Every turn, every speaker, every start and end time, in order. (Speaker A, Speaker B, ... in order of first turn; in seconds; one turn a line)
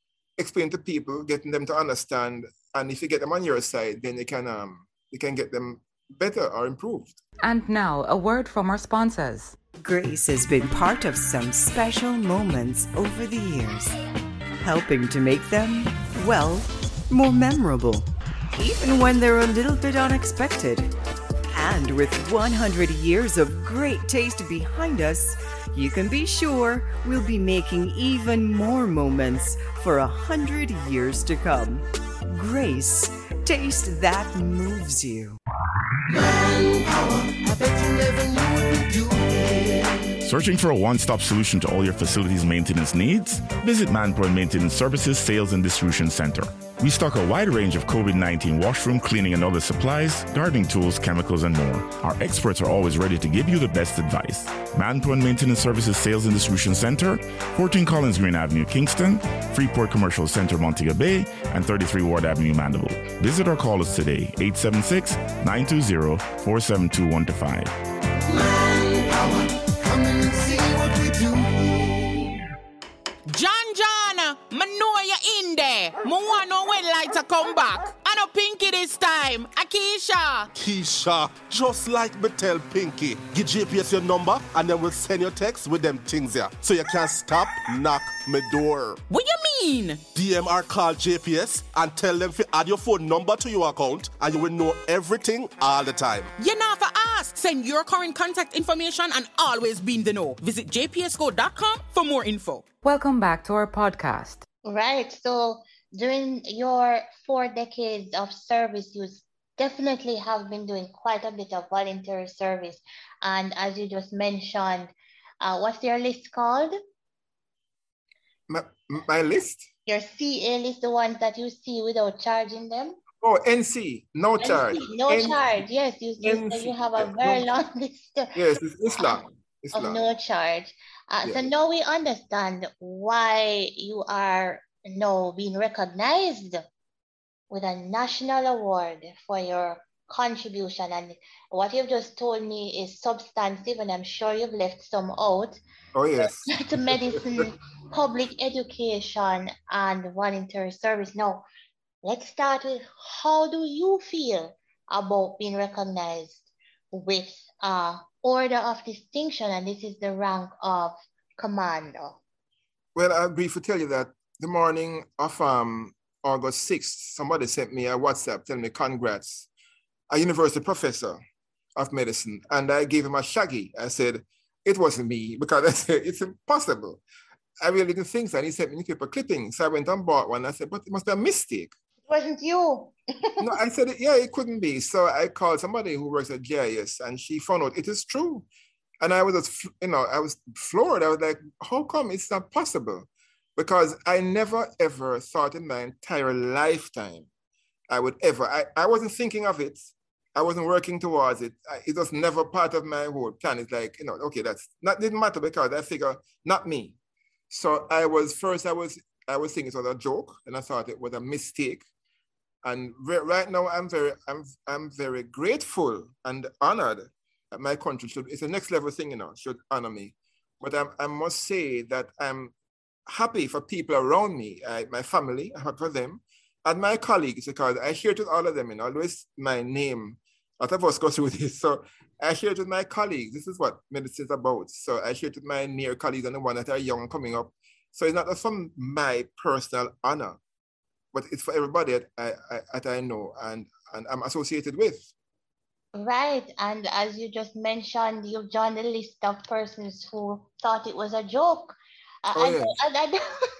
Speaker A: 0.4-7.2
Speaker B: 7.4-9.6
Speaker C: 9.8-14.0
Speaker C: 14.6-20.9
Speaker C: 21.5-35.4
Speaker C: 36.7-40.1
Speaker D: 40.2-67.7
Speaker E: 73.3-80.5
Speaker F: 80.5-89.0
Speaker E: 89.1-90.0
Speaker F: 90.1-96.3
Speaker E: 96.4-102.6
Speaker B: 102.8-104.4
Speaker G: 104.6-116.7
Speaker A: 118.5-119.7
Speaker G: 119.8-123.0
Speaker A: 123.2-125.4
Speaker G: 124.4-128.3
Speaker A: 126.2-127.5
Speaker A: 128.3-130.0
Speaker G: 129.7-136.6
Speaker A: 131.2-131.5
Speaker G: 137.5-145.6
Speaker A: 145.9-147.0
Speaker G: 146.2-151.4
Speaker G: 152.0-162.2
Speaker A: 162.9-169.5
Speaker A: 170.1-171.2
Speaker A: 171.8-177.0
Speaker A: 177.6-181.7
Speaker G: 182.1-183.4
Speaker A: 183.4-188.4
Speaker A: 189.0-197.3
Speaker A: 197.9-207.0
Speaker A: 207.5-211.8
Speaker A: 212.6-222.5
Speaker A: 223.1-240.4
Speaker A: 241.1-245.1
Speaker G: 245.9-253.2
Speaker A: 252.3-252.7